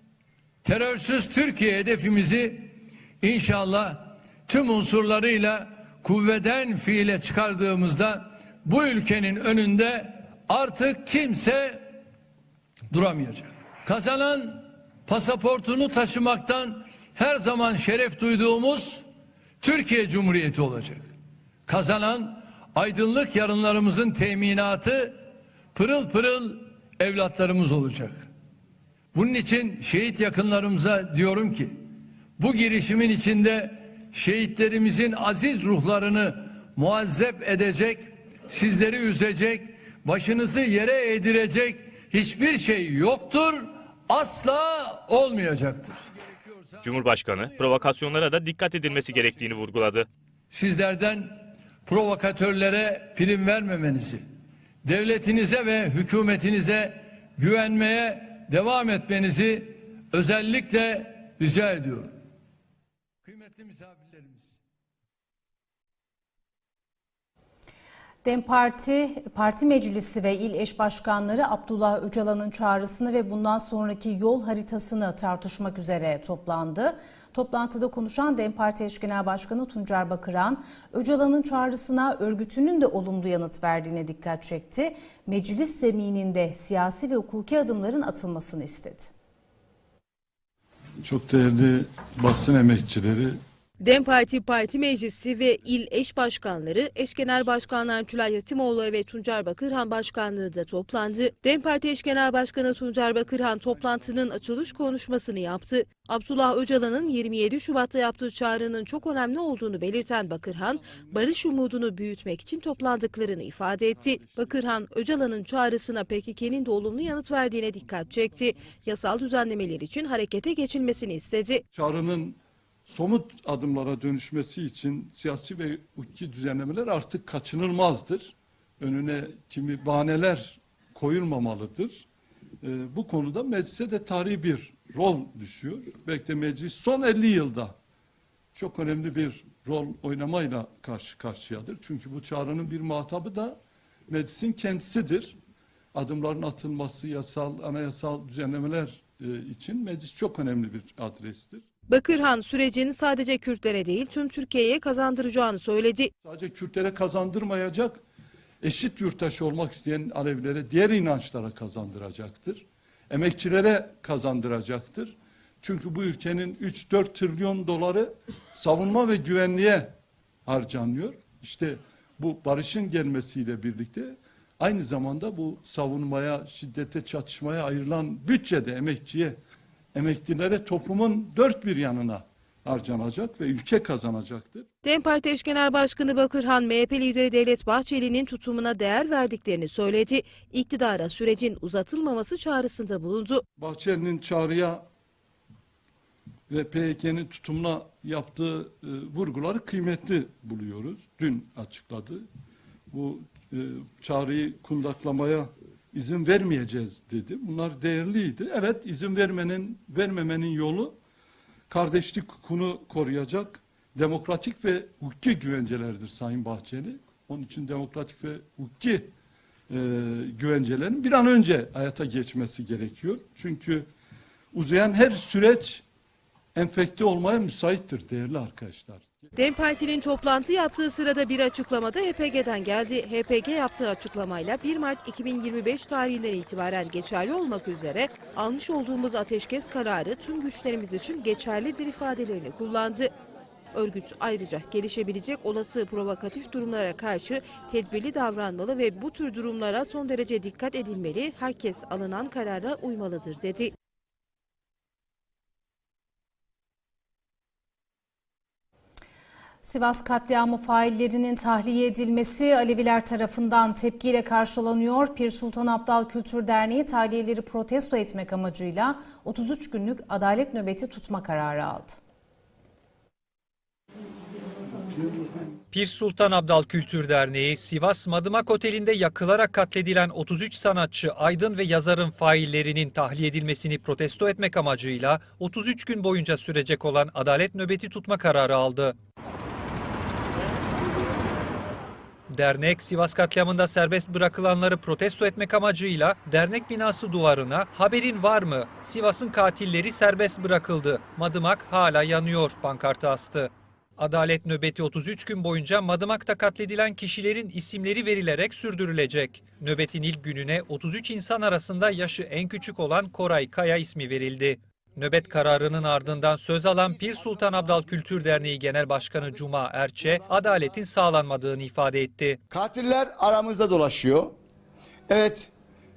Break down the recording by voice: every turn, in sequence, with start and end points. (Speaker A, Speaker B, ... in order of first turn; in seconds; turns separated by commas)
Speaker A: 0.6-11.9, Speaker A: 12.9-19.1, Speaker A: 19.6-21.1, Speaker A: 21.6-28.3, Speaker A: 29.1-31.8, Speaker A: 32.4-46.7, Speaker B: 46.8-50.1, Speaker A: 50.5-54.2, Speaker A: 54.8-62.1, Speaker A: 63.2-64.5, Speaker C: 68.2-89.1, Speaker D: 91.0-93.4, Speaker E: 93.8-121.6, Speaker D: 121.7-132.0, Speaker D: 132.6-137.8, Speaker D: 138.5-143.6, Speaker D: 144.1-145.3, Speaker D: 145.9-151.7, Speaker E: 151.9-156.1, Speaker D: 156.2-158.0, Speaker D: 158.6-169.9, Speaker D: 170.4-179.4, Speaker D: 179.9-184.7, Speaker E: 184.8-193.4, Speaker D: 193.6-194.8, Speaker D: 196.5-202.2, Speaker D: 202.9-210.9, Speaker D: 211.7-219.1, Speaker D: 219.7-223.9, Speaker D: 224.5-225.8, Speaker D: 226.5-229.3, Speaker E: 229.3-243.1, Speaker E: 243.7-253.7, Speaker C: 259.6-272.0, Speaker F: 275.7-288.9, Speaker F: 292.3-322.4, Speaker G: 322.5-324.3, Speaker G: 325.1-325.5